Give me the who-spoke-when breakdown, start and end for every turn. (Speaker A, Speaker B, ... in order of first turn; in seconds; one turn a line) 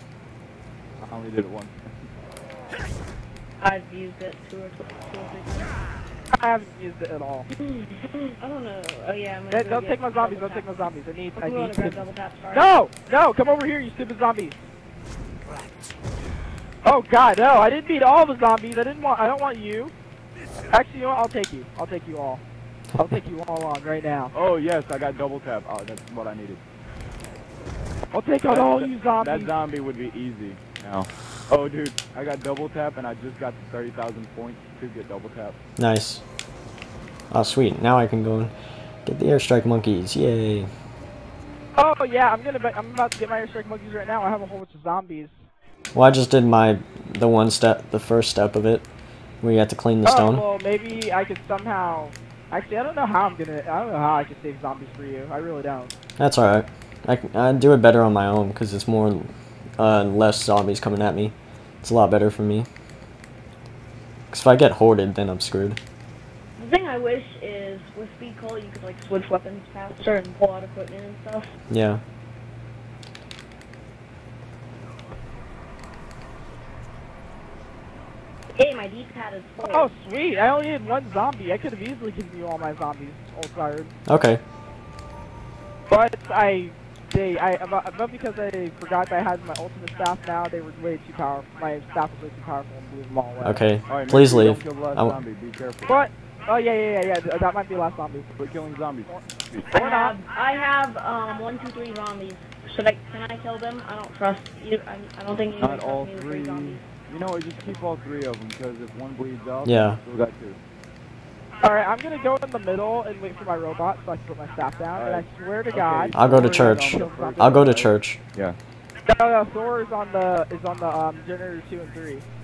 Speaker A: 1.0-1.9
Speaker B: 3.6-5.7
Speaker C: 6.3-7.5
Speaker B: 7.6-10.7
Speaker C: 9.5-14.6
Speaker B: 11.4-12.7
Speaker C: 16.8-19.9
Speaker C: 20.7-22.4
Speaker C: 22.9-24.3
Speaker A: 24.3-26.6
Speaker C: 28.1-29.5
Speaker A: 28.5-35.6
Speaker D: 35.8-36.2
Speaker D: 37.3-38.5
Speaker D: 39.0-40.7
Speaker C: 41.8-45.4
Speaker D: 45.9-48.9
Speaker D: 49.4-50.5
Speaker C: 50.0-55.9
Speaker D: 56.2-62.7
Speaker D: 64.3-65.8
Speaker B: 66.6-71.5
Speaker D: 71.7-72.0
Speaker B: 78.6-79.9
Speaker C: 79.6-83.9
Speaker D: 84.1-84.4
Speaker C: 85.9-93.6
Speaker D: 93.4-95.2
Speaker A: 93.9-96.0
Speaker C: 95.9-98.3
Speaker A: 98.4-99.7
Speaker B: 99.7-106.9
Speaker C: 99.7-100.2
Speaker A: 105.6-110.6
Speaker D: 109.6-110.0
Speaker C: 111.6-117.7
Speaker A: 115.0-118.6
Speaker D: 116.1-118.2
Speaker C: 119.1-122.2